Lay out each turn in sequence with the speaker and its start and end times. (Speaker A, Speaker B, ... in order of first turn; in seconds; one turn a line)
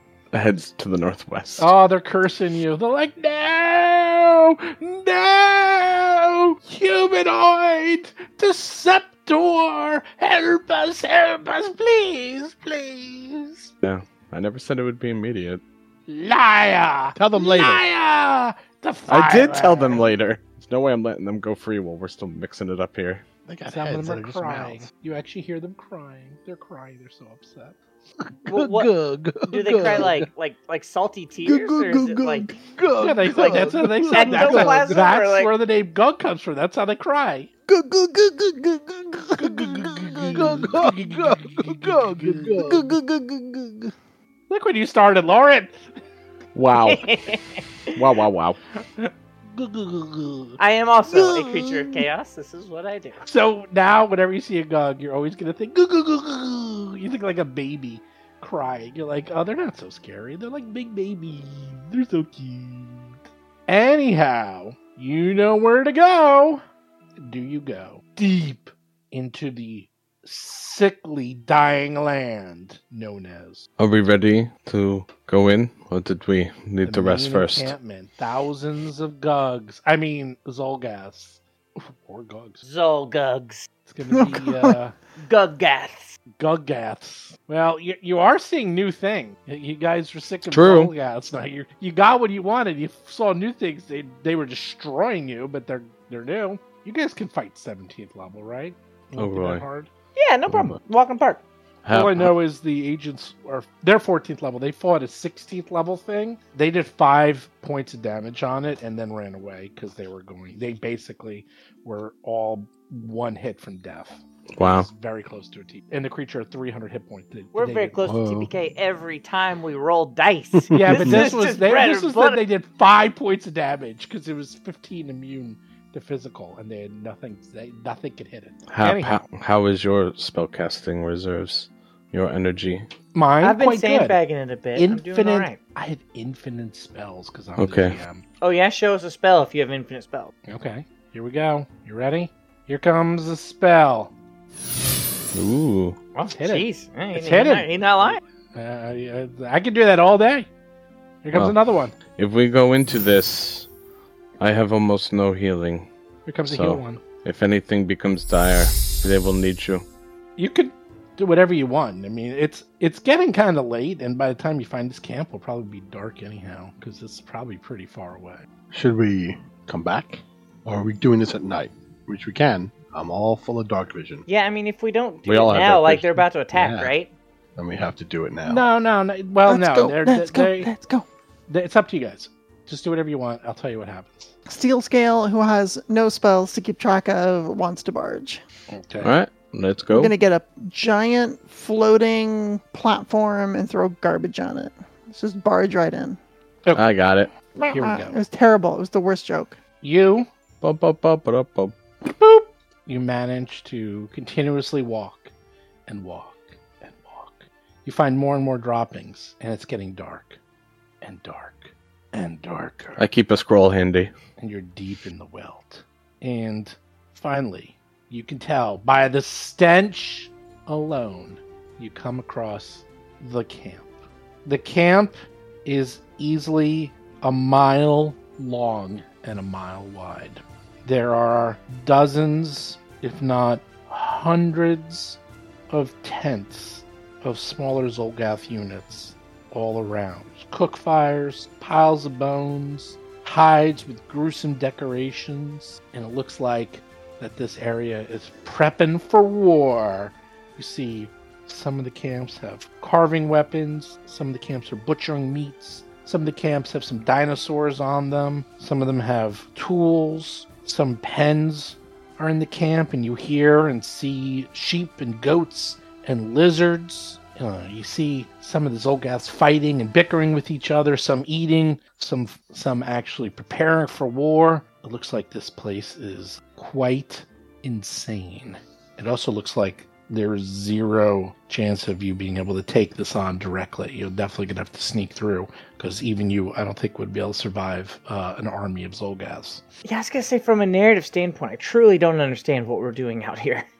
Speaker A: 0.3-1.7
Speaker B: 1.6-13.7
Speaker A: 13.8-15.6
Speaker B: 16.1-20.1
Speaker C: 17.1-17.9
Speaker A: 19.1-23.2
Speaker C: 23.4-24.8
Speaker B: 23.7-27.8
Speaker D: 28.5-32.6
Speaker C: 28.7-30.2
Speaker C: 31.5-34.9
Speaker B: 33.0-37.6
Speaker D: 33.3-35.5
Speaker C: 37.7-38.8
Speaker B: 38.7-43.9
Speaker C: 39.4-43.0
Speaker B: 44.5-45.8
Speaker A: 46.5-47.1
Speaker D: 46.7-48.0
Speaker A: 48.0-48.6
Speaker B: 49.5-52.1
Speaker D: 50.6-53.2
Speaker B: 53.2-66.6
Speaker B: 67.2-73.7
Speaker A: 73.8-77.7
Speaker B: 76.8-82.6
Speaker D: 82.6-83.7
Speaker B: 83.9-84.9
Speaker E: 84.1-84.7
Speaker D: 85.2-86.1
Speaker B: 86.4-99.9
Speaker A: 90.5-90.9
Speaker A: 99.2-99.6
Speaker D: 100.2-101.4
Speaker A: 101.8-102.3
Speaker B: 101.9-118.0
Speaker A: 114.6-114.9
Speaker D: 117.5-122.4
Speaker C: 118.0-118.5
Speaker C: 120.5-121.3
Speaker B: 120.7-129.2
Speaker A: 128.7-132.9
Speaker B: 133.1-134.2
Speaker D: 133.4-135.6
Speaker B: 134.8-138.2
Speaker A: 137.6-138.0
Speaker D: 138.4-140.3
Speaker B: 140.5-144.1
Speaker A: 145.3-146.0
Speaker D: 146.1-148.2
Speaker B: 146.3-150.5
Speaker B: 151.2-152.0
Speaker A: 152.1-153.7
Speaker A: 154.4-155.9
Speaker B: 156.3-157.0
Speaker A: 156.5-159.8
Speaker B: 160.4-168.4
Speaker C: 168.7-174.3
Speaker D: 174.3-177.1
Speaker A: 175.2-176.1
Speaker C: 176.5-176.9
Speaker C: 177.6-178.7
Speaker B: 178.4-180.7
Speaker E: 179.5-181.1
Speaker B: 181.5-184.3
Speaker E: 184.4-188.4
Speaker B: 188.7-189.1
Speaker A: 189.0-190.1
Speaker E: 189.9-196.2
Speaker A: 196.8-197.3
Speaker E: 197.6-199.6
Speaker B: 197.6-198.2
Speaker B: 199.8-200.3
Speaker A: 200.6-201.8
Speaker B: 202.0-205.3
Speaker B: 205.9-210.4
Speaker B: 211.0-213.0
Speaker A: 213.0-214.1
Speaker B: 214.4-223.9
Speaker B: 224.4-235.2
Speaker B: 235.7-289.6
Speaker D: 289.8-293.6